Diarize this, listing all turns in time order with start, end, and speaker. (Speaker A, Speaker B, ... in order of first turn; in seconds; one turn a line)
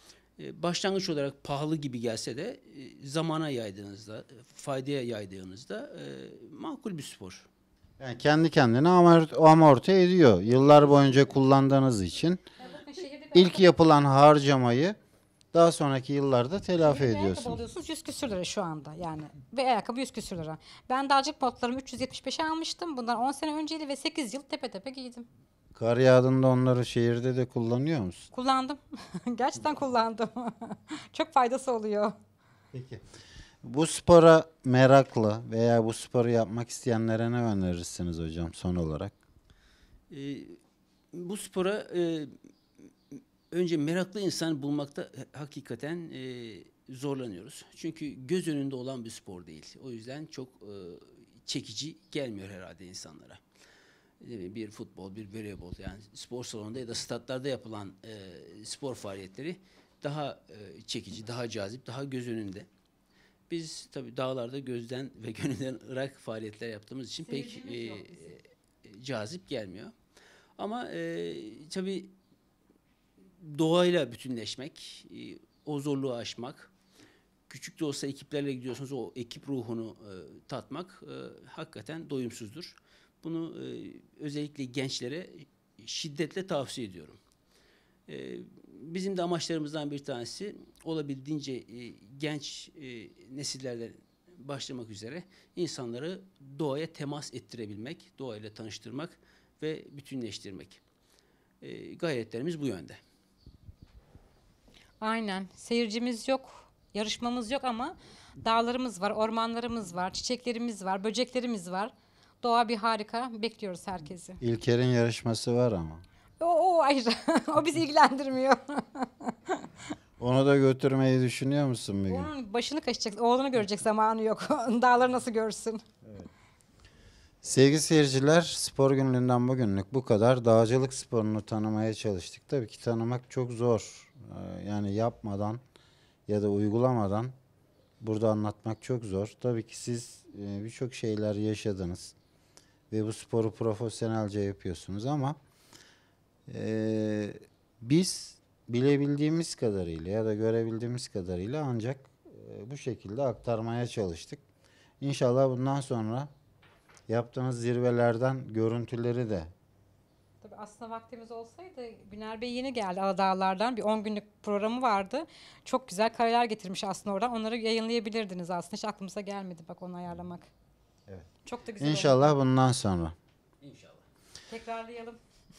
Speaker A: 0.4-7.5
Speaker B: 8.0-12.4
Speaker C: 12.6-13.7
Speaker B: 13.3-15.0
Speaker B: 15.5-17.6
Speaker C: 16.8-25.3
Speaker B: 25.7-28.3
Speaker C: 28.3-32.1
Speaker B: 32.7-33.0
Speaker B: 33.6-39.1
Speaker A: 40.1-40.6
Speaker A: 41.1-42.3
Speaker A: 43.1-53.4
Speaker A: 54.2-62.7
Speaker A: 63.5-69.9
Speaker C: 67.2-68.3
Speaker A: 70.6-72.1
Speaker A: 73.4-76.7
Speaker A: 77.5-87.2
Speaker A: 88.1-100.8
Speaker A: 101.6-103.0
Speaker C: 105.0-114.4
Speaker B: 114.4-116.0
Speaker C: 116.4-119.7
Speaker B: 120.2-122.3
Speaker C: 122.1-125.8
Speaker B: 127.4-135.6
Speaker B: 136.3-137.3
Speaker B: 138.0-142.1
Speaker B: 142.9-145.4
Speaker B: 146.5-154.4
Speaker B: 155.0-156.3
Speaker B: 157.1-159.5
Speaker C: 160.4-170.5
Speaker C: 171.4-172.3
Speaker B: 171.8-173.1
Speaker A: 173.6-174.0
Speaker C: 174.5-175.2